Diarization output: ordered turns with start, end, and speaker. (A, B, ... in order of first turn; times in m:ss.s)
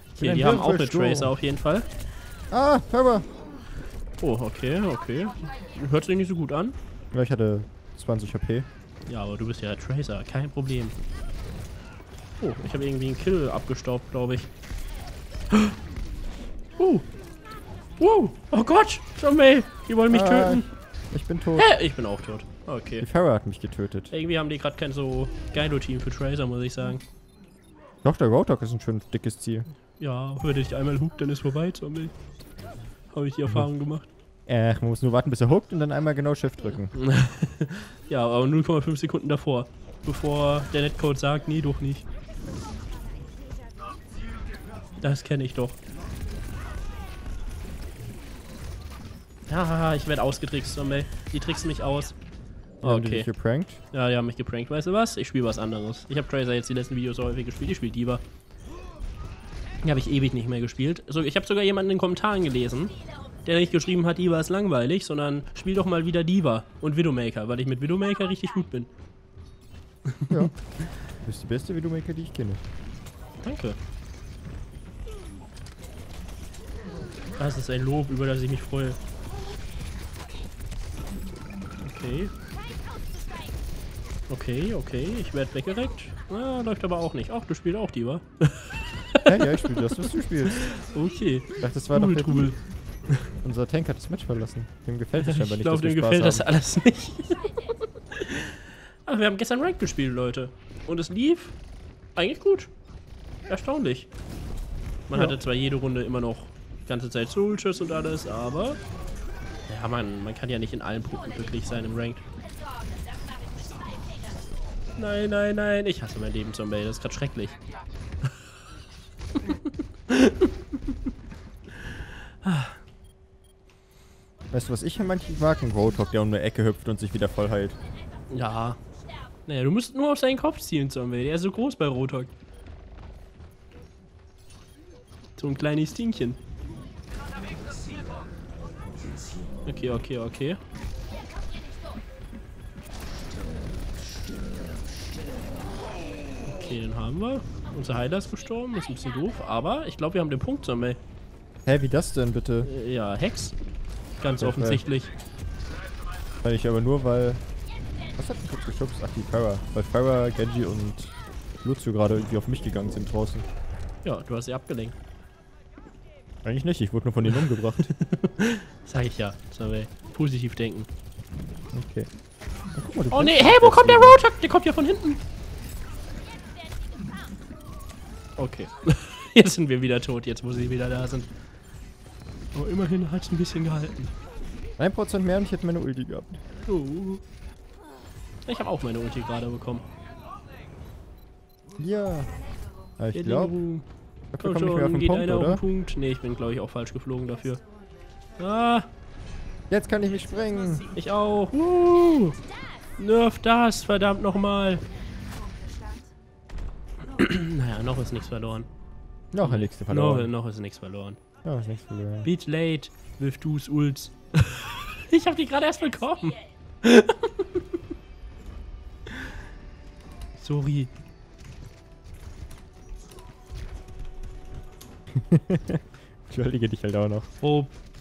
0:00.2-0:01.3 A
0:00.2-0:01.9 B
0:02.5-0:03.3 A
0:04.2-0:06.8 B
0:07.1-0:08.6 A
0:09.1-0:11.0 B
0:12.4-0:14.5 B
0:16.8-0:17.0 B
0:18.0-0:20.6 B
0:20.1-0:21.7 A
0:21.5-0:23.0 B
0:23.0-0:24.1 A
0:24.1-0:27.0 B
0:28.0-0:29.7 A
0:30.0-0:32.1 B
0:33.1-0:34.1 B
0:34.5-0:36.9 A
0:36.9-0:42.0 B
0:45.0-0:45.8 B
0:49.5-0:52.2 B
0:52.8-0:53.8 A
0:52.8-0:53.3 B
0:53.9-0:58.2 B
0:59.8-1:08.9 B
1:10.1-1:10.5 B
1:11.2-1:12.6 A
1:13.4-1:13.8 B
1:17.4-1:19.0 B
1:21.8-1:22.3 B
1:24.3-1:33.3 B
1:29.2-1:30.7 A
1:31.6-1:32.5 A
1:33.4-1:36.4 A
1:35.2-1:41.6 B
1:42.2-1:42.7 B
1:43.5-1:44.1 B
1:45.1-1:48.8 B
1:49.7-1:52.2 B
1:55.0-1:57.6 B
1:59.4-2:01.0 B
2:01.7-2:02.8 B
2:04.5-2:07.8 A
2:08.3-2:08.8 B
2:09.4-2:12.3 B
2:15.4-2:16.4 B
2:19.6-2:20.6 B
2:26.4-2:31.0 B
2:31.6-2:32.7 A
2:32.6-2:33.5 B
2:34.2-2:35.1 B
2:34.4-2:34.8 A
2:36.4-2:37.4 A
2:38.2-2:43.4 A
2:44.0-2:45.0 B
2:46.4-2:47.9 A
2:47.3-2:50.9 B
2:51.7-2:52.1 A
2:52.7-2:54.2 A
2:53.1-2:55.2 B
2:58.4-3:01.3 B
3:02.5-3:04.1 B
3:04.8-3:06.4 A
3:06.7-3:07.2 B
3:08.4-3:09.8 B
3:11.8-3:12.4 A
3:13.0-3:13.5 A
3:13.1-3:13.8 B
3:14.3-3:15.6 A
3:14.4-3:17.6 B
3:18.4-3:18.9 B
3:19.7-3:20.9 A
3:20.9-3:22.4 B
3:23.0-3:24.8 B
3:27.1-3:28.7 B
3:29.3-3:30.3 A
3:29.4-3:31.2 B
3:31.4-3:32.3 A
3:32.2-3:37.8 B
3:39.1-3:39.4 B
3:40.4-3:40.9 B
3:45.1-3:47.3 A
3:47.4-3:47.7 B